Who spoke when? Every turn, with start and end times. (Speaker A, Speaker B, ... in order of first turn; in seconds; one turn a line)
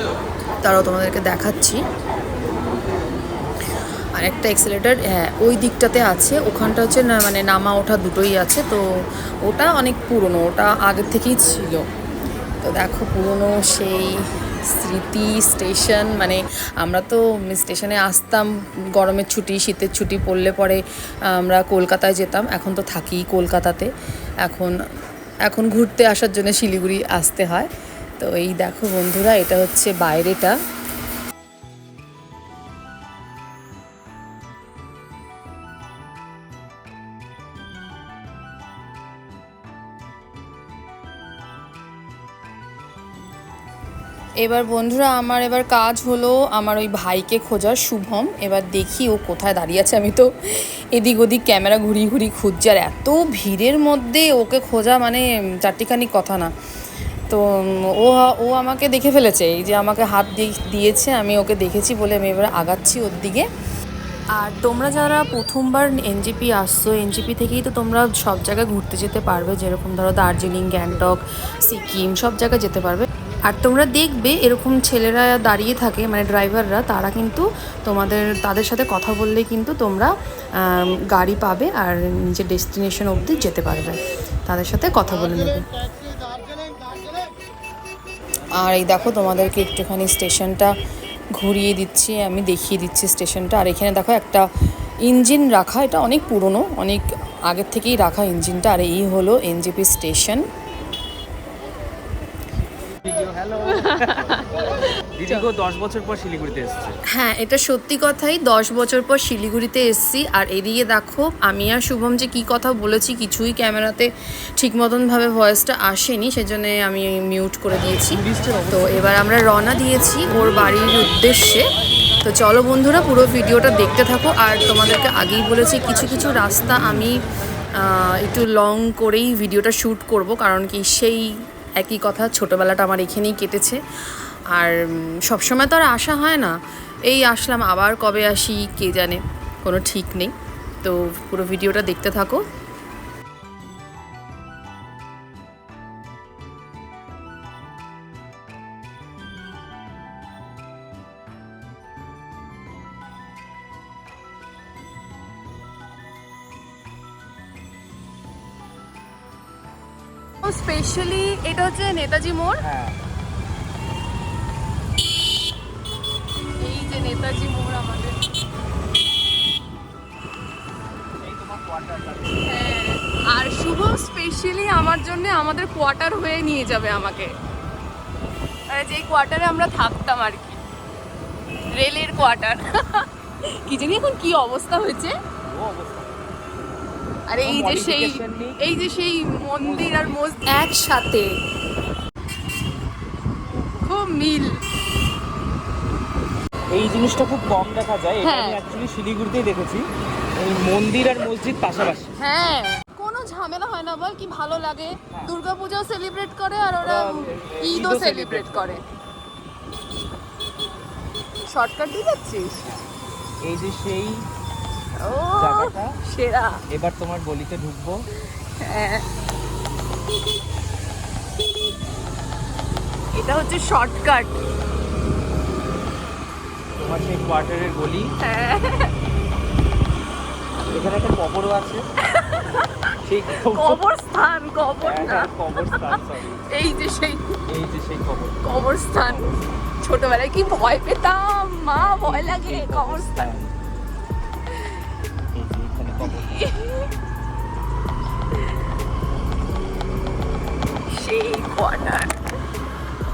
Speaker A: 0.6-1.8
Speaker A: 4.2-8.8
Speaker A: 9.4-11.8
Speaker A: 12.6-23.9
Speaker A: 24.4-24.7
Speaker A: 25.4-30.6
Speaker A: 44.4-56.5
Speaker A: 57.3-63.5
Speaker A: 64.3-85.6
Speaker A: 88.6-90.7
Speaker A: 91.3-94.4
Speaker A: 95.0-100.4
Speaker B: 102.7-104.5
Speaker A: 103.8-105.5
Speaker B: 105.2-107.0
Speaker A: 107.1-121.7
Speaker B: 118.1-119.3
Speaker A: 122.2-127.2
Speaker A: 127.8-136.6
Speaker A: 137.1-142.4
Speaker A: 160.4-162.6
Speaker B: 162.6-163.0
Speaker A: 166.6-168.2
Speaker B: 171.2-172.6
Speaker A: 172.4-177.3
Speaker A: 178.7-180.6
Speaker A: 181.7-185.1
Speaker B: 185.4-186.0
Speaker A: 187.3-191.3
Speaker B: 187.4-188.6
Speaker B: 189.6-190.0
Speaker A: 193.8-194.6
Speaker B: 196.7-202.1
Speaker A: 198.2-198.6
Speaker A: 202.2-208.8
Speaker B: 206.8-208.8
Speaker A: 211.5-212.7
Speaker B: 213.4-214.2
Speaker A: 215.0-216.6
Speaker B: 215.3-215.9
Speaker B: 216.7-217.9
Speaker A: 218.6-219.0
Speaker A: 223.1-224.3
Speaker B: 226.8-228.1
Speaker A: 228.2-228.9
Speaker B: 230.7-231.8
Speaker A: 232.1-236.0
Speaker B: 233.0-233.8
Speaker B: 234.8-236.4
Speaker A: 236.5-237.3
Speaker B: 237.5-239.3
Speaker A: 238.4-243.3
Speaker B: 242.0-243.6
Speaker B: 245.3-246.4
Speaker A: 246.0-246.9
Speaker A: 250.9-252.1